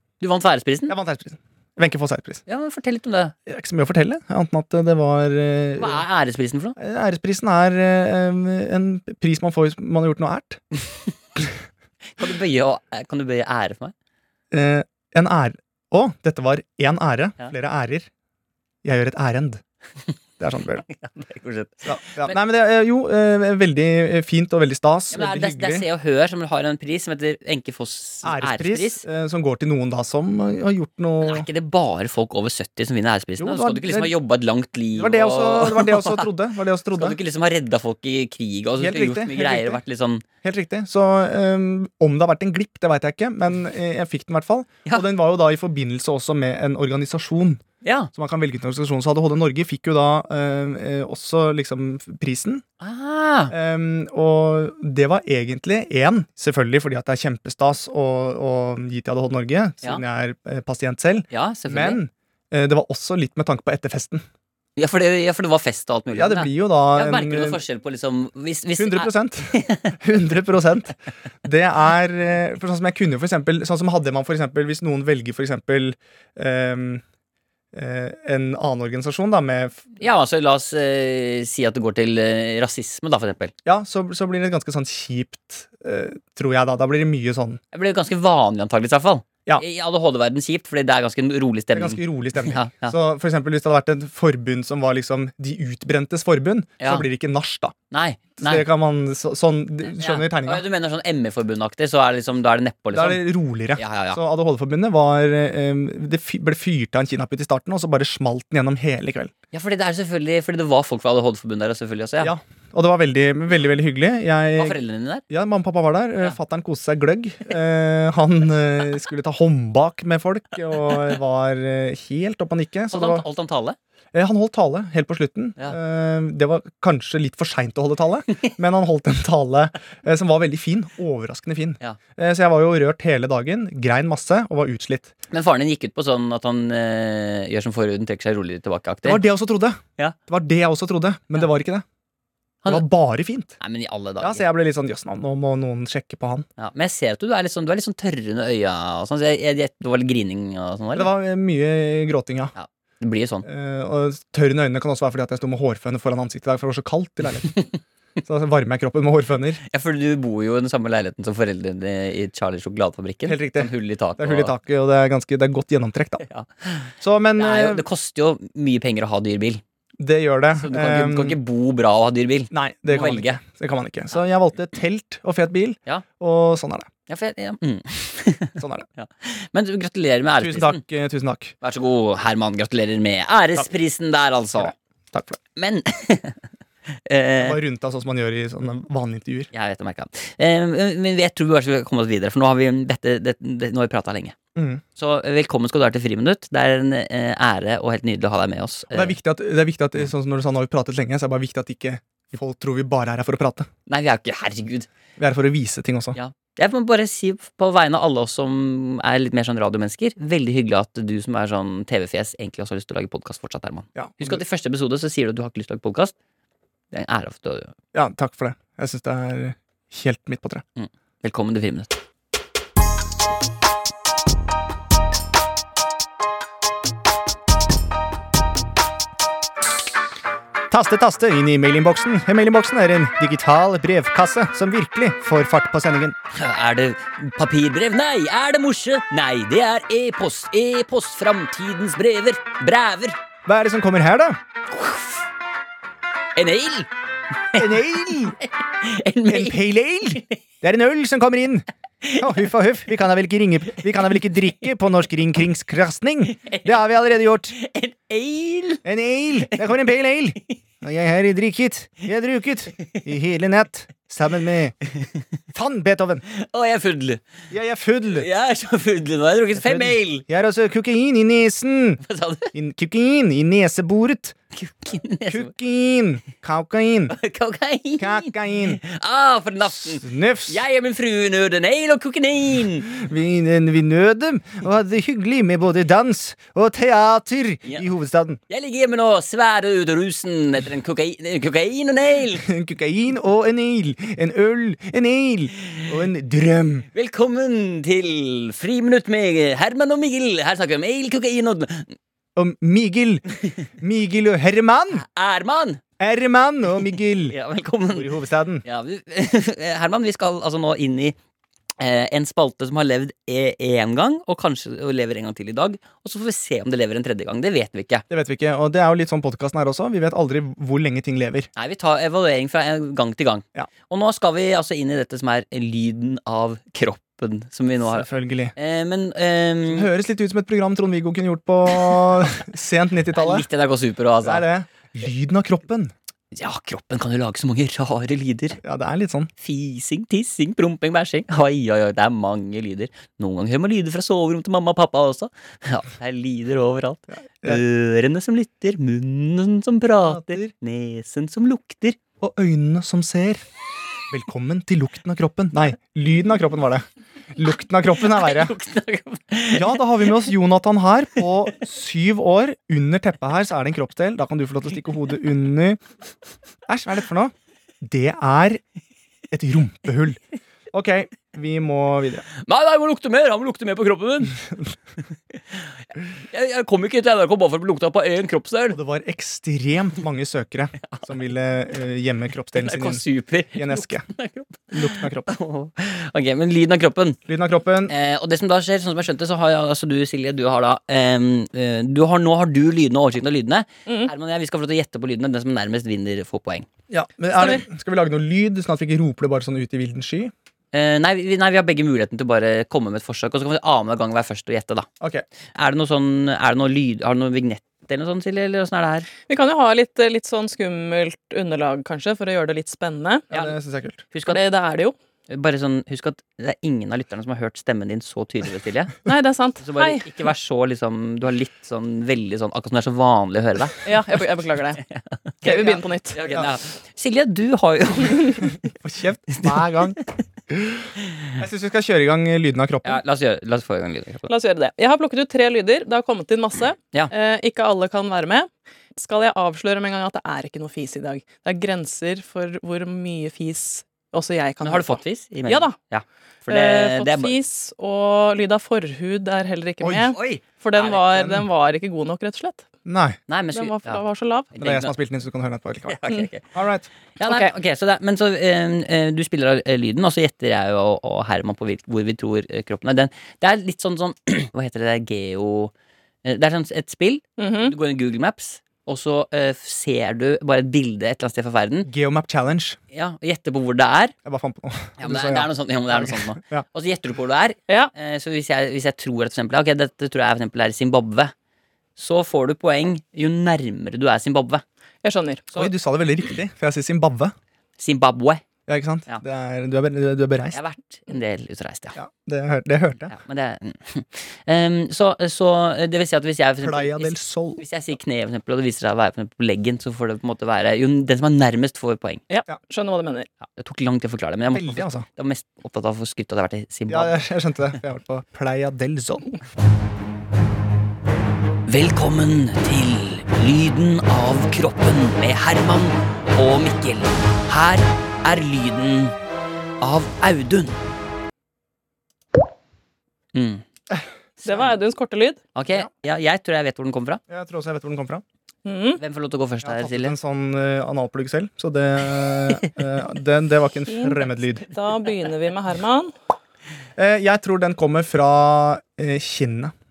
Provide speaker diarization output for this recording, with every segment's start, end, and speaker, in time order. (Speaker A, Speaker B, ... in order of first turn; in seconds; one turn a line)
Speaker A: 0.2-0.9
Speaker B: 0.9-2.4
Speaker A: 2.5-3.3
Speaker B: 3.5-6.0
Speaker A: 5.8-6.8
Speaker B: 6.8-10.6
Speaker A: 12.2-13.9
Speaker B: 14.5-18.1
Speaker B: 18.8-19.6
Speaker B: 20.4-20.8
Speaker A: 20.8-22.4
Speaker B: 21.8-25.9
Speaker A: 25.1-29.0
Speaker B: 28.2-31.5
Speaker A: 31.2-36.3
Speaker B: 33.4-34.1
Speaker B: 34.9-37.2
Speaker A: 37.0-40.2
Speaker B: 38.8-39.8
Speaker B: 40.4-47.6
Speaker A: 47.8-48.1
Speaker B: 48.1-52.6
Speaker A: 52.8-53.5
Speaker B: 53.5-64.2
Speaker A: 61.3-62.0
Speaker A: 64.8-70.0
Speaker B: 66.1-67.6
Speaker B: 68.8-77.0
Speaker B: 77.7-79.9
Speaker A: 80.0-83.5
Speaker B: 83.6-87.6
Speaker A: 87.7-92.9
Speaker B: 91.7-97.7
Speaker A: 96.8-97.0
Speaker A: 97.9-98.7
Speaker B: 98.4-100.6
Speaker A: 99.9-104.2
Speaker B: 102.9-109.3
Speaker A: 109.5-112.3
Speaker B: 112.2-123.2
Speaker A: 114.6-115.2
Speaker A: 122.9-123.8
Speaker B: 124.1-135.1
Speaker A: 135.3-139.2
Speaker B: 139.0-141.8
Speaker B: 142.7-143.6
Speaker A: 143.6-144.4
Speaker B: 144.2-146.4
Speaker A: 146.6-151.1
Speaker B: 150.9-152.5
Speaker A: 152.5-153.4
Speaker B: 153.4-157.6
Speaker B: 158.2-159.6
Speaker A: 159.7-164.5
Speaker B: 163.2-166.2
Speaker A: 166.2-169.6
Speaker B: 167.0-167.8
Speaker B: 170.0-171.4
Speaker A: 170.6-173.4
Speaker B: 172.5-176.9
Speaker A: 177.1-180.8
Speaker B: 178.6-178.9
Speaker B: 180.4-181.5
Speaker A: 181.6-184.7
Speaker B: 184.6-185.4
Speaker A: 185.6-186.4
Speaker A: 187.1-187.6
Speaker B: 187.4-189.5
Speaker A: 189.5-194.3
Speaker B: 194.5-194.8
Speaker A: 194.9-199.2
Speaker B: 198.9-203.7
Speaker A: 203.9-204.9
Speaker B: 205.2-206.2
Speaker A: 206.1-216.1
Speaker B: 213.9-214.4
Speaker A: 216.9-217.7
Speaker B: 217.9-220.6
Speaker A: 220.8-221.9
Speaker B: 230.7-236.2
Speaker A: 236.3-243.2
Speaker B: 243.4-244.4
Speaker A: 244.7-245.2
Speaker A: 246.3-246.9
Speaker A: 247.5-250.4
Speaker B: 247.5-248.3
Speaker B: 249.3-251.6
Speaker A: 252.0-252.4
Speaker B: 252.2-257.5
Speaker A: 256.3-256.8
Speaker A: 257.6-258.8
Speaker B: 258.8-264.7
Speaker B: 265.5-266.2
Speaker A: 266.3-267.2
Speaker B: 267.5-268.3
Speaker A: 268.1-270.2
Speaker B: 269.5-272.0
Speaker A: 272.0-272.5
Speaker B: 272.5-274.4
Speaker A: 274.5-275.5
Speaker B: 275.3-277.1
Speaker A: 277.1-282.9
Speaker B: 278.0-278.8
Speaker B: 279.6-280.6
Speaker B: 282.9-288.4
Speaker A: 288.5-292.5
Speaker B: 292.3-296.9
Speaker A: 296.9-301.9
Speaker B: 302.4-303.2
Speaker B: 303.8-305.0
Speaker A: 304.9-305.8
Speaker B: 306.0-307.4
Speaker A: 307.2-308.1
Speaker B: 307.9-308.6
Speaker A: 308.6-311.1
Speaker A: 311.8-318.0
Speaker B: 318.1-321.5
Speaker A: 321.6-329.9
Speaker B: 327.9-328.5
Speaker B: 329.7-333.5
Speaker A: 333.1-334.4
Speaker B: 334.2-335.9
Speaker A: 336.3-338.6
Speaker B: 338.6-339.3
Speaker A: 339.4-352.0
Speaker B: 347.1-347.6
Speaker B: 350.0-350.5
Speaker B: 352.2-353.4
Speaker B: 354.1-358.5
Speaker A: 358.0-360.3
Speaker B: 359.5-365.8
Speaker B: 366.7-368.6
Speaker B: 369.3-370.2
Speaker B: 370.7-372.2
Speaker A: 372.4-374.4
Speaker B: 374.3-374.7
Speaker A: 376.3-378.8
Speaker B: 378.7-383.0
Speaker A: 382.5-387.2
Speaker B: 383.5-384.1
Speaker B: 384.7-385.3
Speaker B: 387.2-387.9
Speaker A: 387.9-396.7
Speaker B: 396.9-400.3
Speaker A: 400.7-404.9
Speaker A: 405.5-409.1
Speaker C: 409.3-413.3
Speaker B: 413.3-414.0
Speaker A: 414.1-414.4
Speaker C: 414.2-414.9
Speaker A: 415.3-419.0
Speaker C: 419.1-420.1
Speaker A: 419.6-423.9
Speaker C: 423.8-424.8
Speaker A: 424.8-428.5
Speaker C: 425.4-426.2
Speaker B: 428.6-430.0
Speaker B: 430.5-433.0
Speaker A: 432.8-434.3
Speaker C: 434.3-445.8
Speaker A: 444.6-447.4
Speaker C: 446.5-452.6
Speaker B: 449.8-450.1
Speaker A: 450.1-451.3
Speaker B: 452.9-453.2
Speaker A: 453.3-454.9
Speaker C: 453.5-454.5
Speaker B: 454.6-456.0
Speaker A: 455.9-456.4
Speaker B: 456.5-456.9
Speaker A: 457.2-465.7
Speaker C: 457.2-457.5
Speaker A: 466.2-471.9
Speaker C: 467.4-467.7
Speaker B: 471.9-472.8
Speaker A: 472.9-474.1
Speaker B: 474.2-476.6
Speaker A: 475.0-481.3
Speaker A: 482.0-484.6
Speaker C: 485.0-485.7
Speaker B: 485.5-487.3
Speaker A: 487.8-488.4
Speaker B: 488.7-490.6
Speaker A: 490.5-492.0
Speaker B: 491.9-493.1
Speaker A: 493.1-502.2
Speaker B: 496.6-497.6
Speaker C: 502.3-503.3
Speaker A: 503.4-507.2
Speaker B: 504.5-505.1
Speaker B: 506.9-509.3
Speaker A: 511.7-519.1
Speaker A: 519.8-520.8
Speaker A: 523.3-523.6
Speaker B: 523.9-524.7
Speaker C: 524.4-525.4
Speaker A: 525.5-527.2
Speaker B: 527.3-528.2
Speaker C: 528.6-529.0
Speaker A: 529.0-530.1
Speaker B: 529.6-534.6
Speaker C: 533.9-536.1
Speaker B: 537.0-539.7